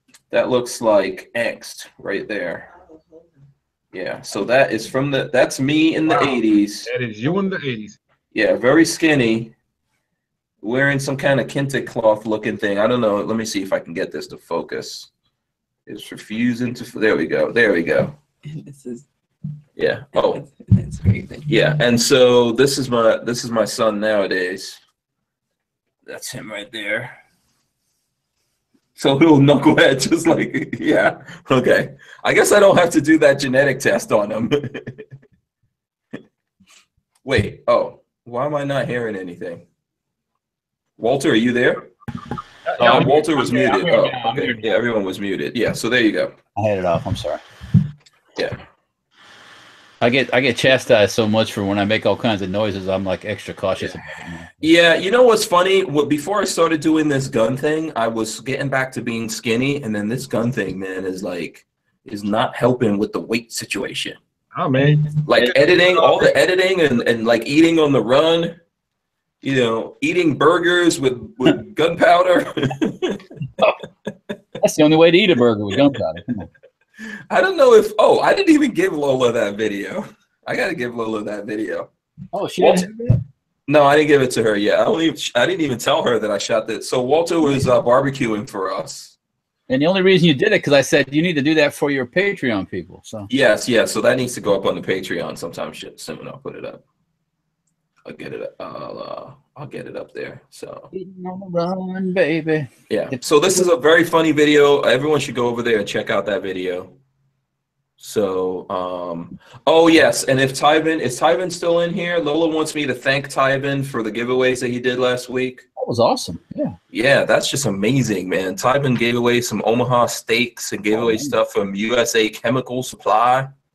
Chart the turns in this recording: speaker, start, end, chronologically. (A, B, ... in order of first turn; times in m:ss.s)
0:00.3-0:02.7 A
0:02.8-0:03.3 B
0:03.9-0:06.9 A
0:06.1-0:08.0 C
0:08.3-0:09.5 A
0:10.6-0:15.1 A
0:15.9-0:18.2 A
0:18.4-0:19.0 B
0:19.8-0:20.4 A
0:20.1-0:21.5 B
0:21.5-0:24.8 A
0:26.1-0:27.2 A
0:29.0-0:35.0 A
0:37.2-0:39.6 A
0:41.0-0:41.9 A
0:42.7-0:43.0 C
0:42.8-0:44.8 D
0:42.8-0:46.3 A
0:46.6-0:47.4 D
0:48.4-0:48.6 A
0:50.0-0:54.6 D
0:54.6-1:04.2 A
1:04.5-1:06.2 C
1:05.2-1:08.6 A
1:09.4-1:13.3 A
1:14.6-1:16.5 D
1:17.0-1:21.9 A
1:22.3-1:23.2 D
1:22.6-1:22.9 A
1:23.7-1:29.2 A
1:29.7-1:33.3 D
1:33.3-1:36.8 A
1:38.1-1:40.9 A
1:40.9-1:43.2 D
1:42.9-1:47.0 A
1:48.0-1:55.6 A
1:55.8-1:56.8 D
1:56.9-2:03.5 A
2:00.9-2:01.3 D